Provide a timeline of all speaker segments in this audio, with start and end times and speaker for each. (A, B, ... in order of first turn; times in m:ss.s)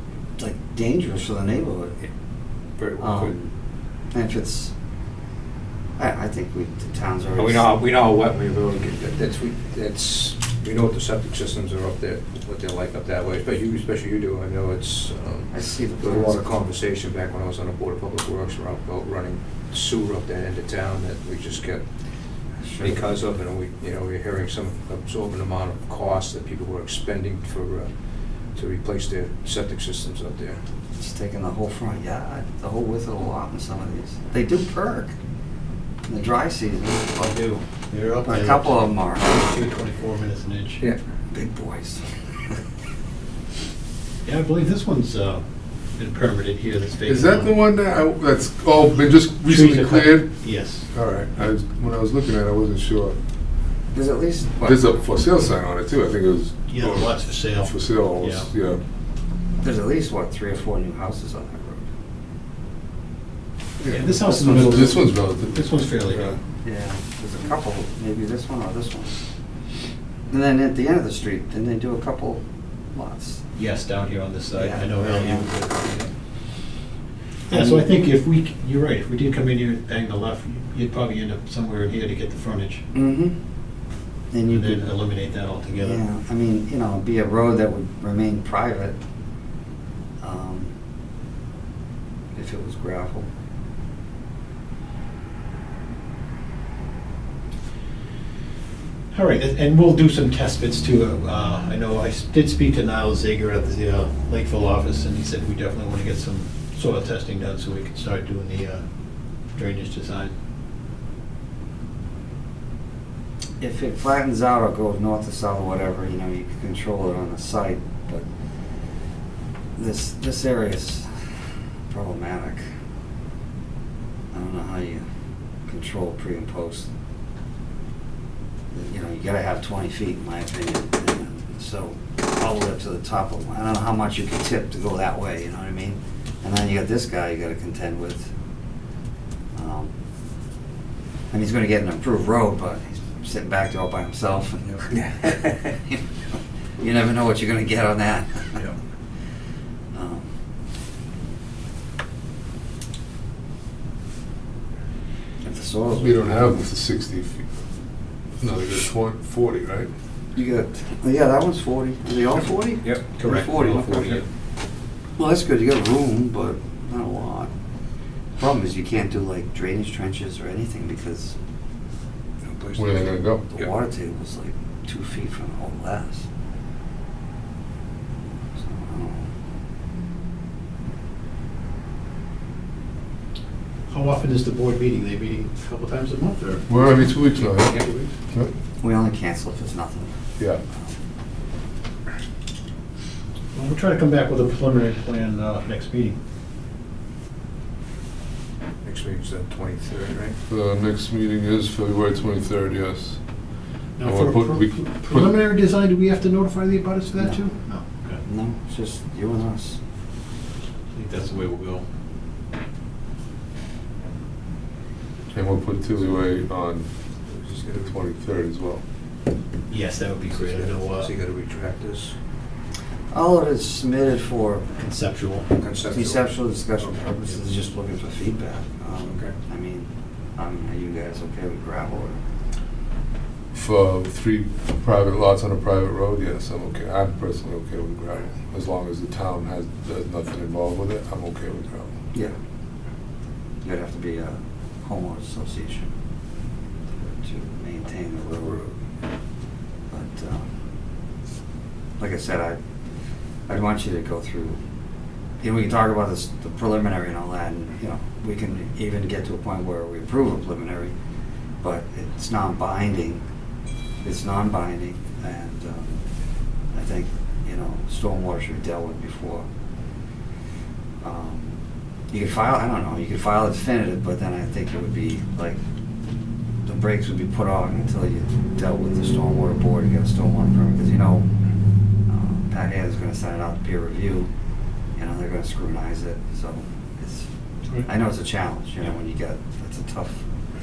0:00.4-0:02.0 A
0:02.8-0:03.4 B
0:03.0-0:03.5 A
0:04.1-0:04.7 A
0:06.0-0:07.8 A
0:07.4-0:21.8 B
0:15.5-0:16.5 A
0:22.6-0:23.0 A
0:22.8-0:27.9 B
0:28.5-0:30.6 B
0:31.0-0:35.1 A
0:36.1-0:37.6 A
0:37.2-0:40.8 C
0:38.2-0:39.4 A
0:41.3-0:42.0 A
0:44.2-0:45.4 C
0:46.0-0:47.5 C
0:47.1-0:50.3 D
0:49.4-0:50.8 C
0:50.9-0:53.2 D
0:53.9-0:54.8 A
0:54.6-0:58.8 D
0:56.7-0:58.5 C
0:59.6-1:01.8 A
1:03.8-1:06.3 D
1:03.9-1:06.4 C
1:04.3-1:04.9 A
1:06.5-1:09.2 A
1:10.3-1:13.4 A
1:13.6-1:16.1 C
1:14.6-1:15.5 A
1:17.5-1:18.1 A
1:17.5-1:22.8 C
1:22.9-1:23.4 A
1:24.3-1:24.8 A
1:24.5-1:26.0 C
1:25.8-1:29.0 A
1:30.2-1:30.7 A
1:32.3-1:33.3 A
1:39.1-1:48.8 C
1:49.5-1:50.3 C
1:53.6-1:58.2 A
1:59.8-2:01.1 A
2:01.9-2:02.6 A
2:04.3-2:05.0 A
2:05.7-2:06.9 A
2:08.7-2:18.3 A
2:19.5-2:19.9 A
2:21.3-2:25.3 A
2:24.9-2:25.7 B
2:26.8-2:28.6 A
2:29.9-2:30.3 A
2:35.4-2:36.2 A
2:35.9-2:37.5 D
2:38.4-2:39.9 D
2:40.3-2:44.2 A
2:42.9-2:44.2 C
2:45.2-2:47.5 A
2:48.4-2:51.3 A
2:52.5-2:56.2 A
2:52.8-2:53.4 D
2:58.6-2:59.3 A
3:03.9-3:06.7 C
3:06.7-3:08.5 D
3:08.8-3:10.1 A
3:13.5-3:16.2 C
3:18.8-3:20.4 B
3:20.5-3:23.2 D
3:24.0-3:28.2 C
3:24.0-3:25.3 D
3:28.2-3:29.8 A
3:30.9-3:31.8 C
3:35.3-3:36.9 D
3:37.3-3:38.0 B
3:37.8-3:38.8 D
3:39.7-3:41.1 C
3:40.3-3:42.1 B
3:43.1-3:44.8 A
3:44.8-3:45.5 C
3:45.6-3:46.2 B
3:45.8-3:52.2 A
3:49.0-3:49.3 B
3:53.5-4:02.0 D
4:03.6-4:05.9 A
4:06.9-4:08.7 A
4:09.9-4:10.4 A
4:12.0-4:12.6 A
4:13.5-4:14.6 A
4:15.4-4:20.9 A
4:21.6-4:23.2 A
4:24.0-4:26.0 A
4:26.7-4:29.5 A
4:31.0-4:31.6 A
4:32.1-4:35.6 A
4:36.6-4:41.2 A
4:42.1-4:44.3 A
4:45.0-4:47.3 A
4:47.8-4:50.2 A